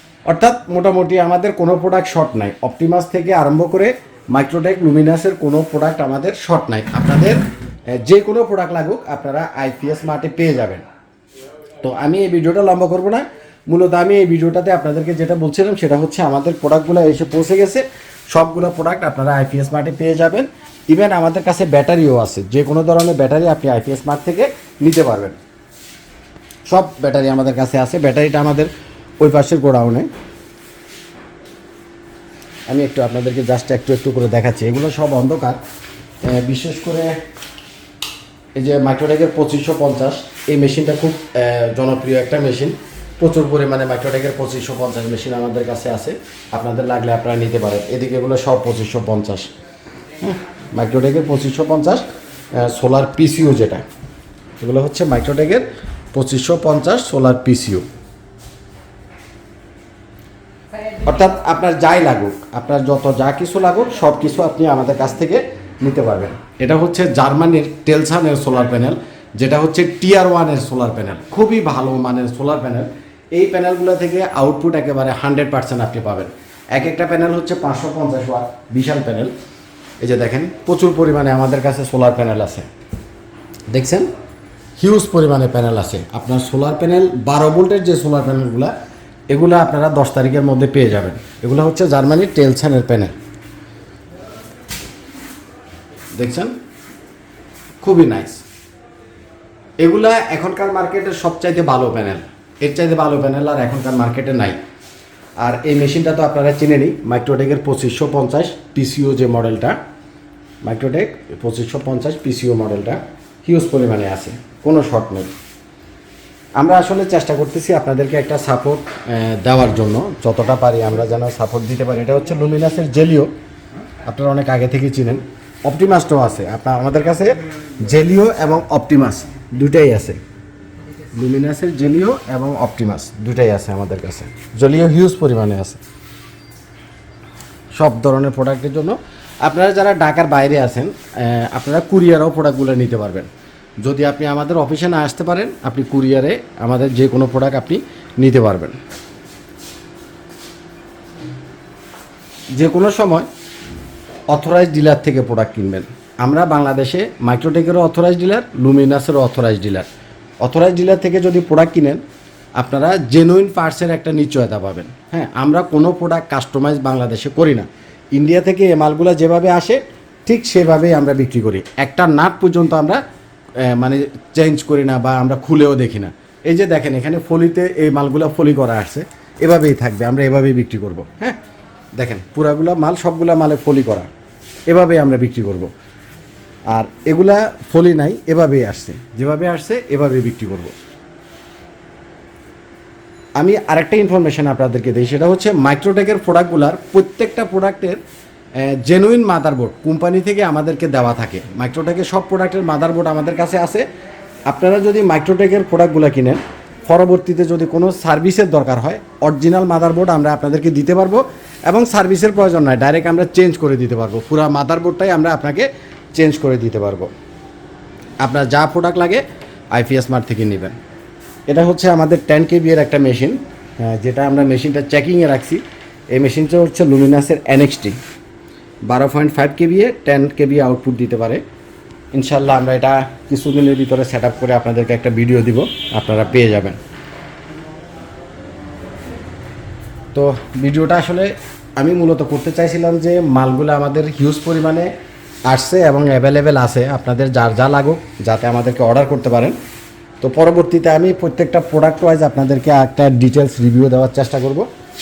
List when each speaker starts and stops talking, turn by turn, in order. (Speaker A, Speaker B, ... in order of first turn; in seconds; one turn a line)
Speaker A: 0.3-10.8
Speaker A: 11.8-25.4
Speaker A: 26.7-30.1
Speaker A: 32.7-35.6
Speaker A: 36.2-37.1
Speaker A: 38.5-49.5
Speaker A: 50.2-53.8
Speaker A: 54.6-57.8
Speaker A: 61.0-79.3
Speaker A: 80.0-82.7
Speaker A: 83.7-84.1
Speaker A: 84.8-88.7
Speaker A: 89.3-93.1
Speaker A: 96.1-96.5
Speaker A: 97.8-98.4
Speaker A: 99.8-104.6
Speaker A: 105.4-109.8
Speaker A: 110.6-115.3
Speaker A: 116.6-123.3
Speaker A: 124.0-130.2
Speaker A: 131.1-135.8
Speaker A: 137.8-143.3
Speaker A: 143.8-148.8
Speaker A: 152.5-153.3
Speaker A: 154.3-159.9
Speaker A: 160.4-162.0
Speaker A: 162.6-173.0
Speaker A: 173.6-181.4
Speaker A: 182.0-184.1
Speaker A: 184.7-185.7
Speaker A: 186.7-190.7
Speaker A: 193.4-198.0
Speaker A: 198.6-203.8
Speaker A: 204.5-217.1
Speaker A: 218.2-220.8
Speaker A: 221.5-228.0
Speaker A: 228.8-231.4
Speaker A: 232.1-236.8
Speaker A: 240.1-244.9
Speaker A: 245.5-249.6
Speaker A: 250.2-254.7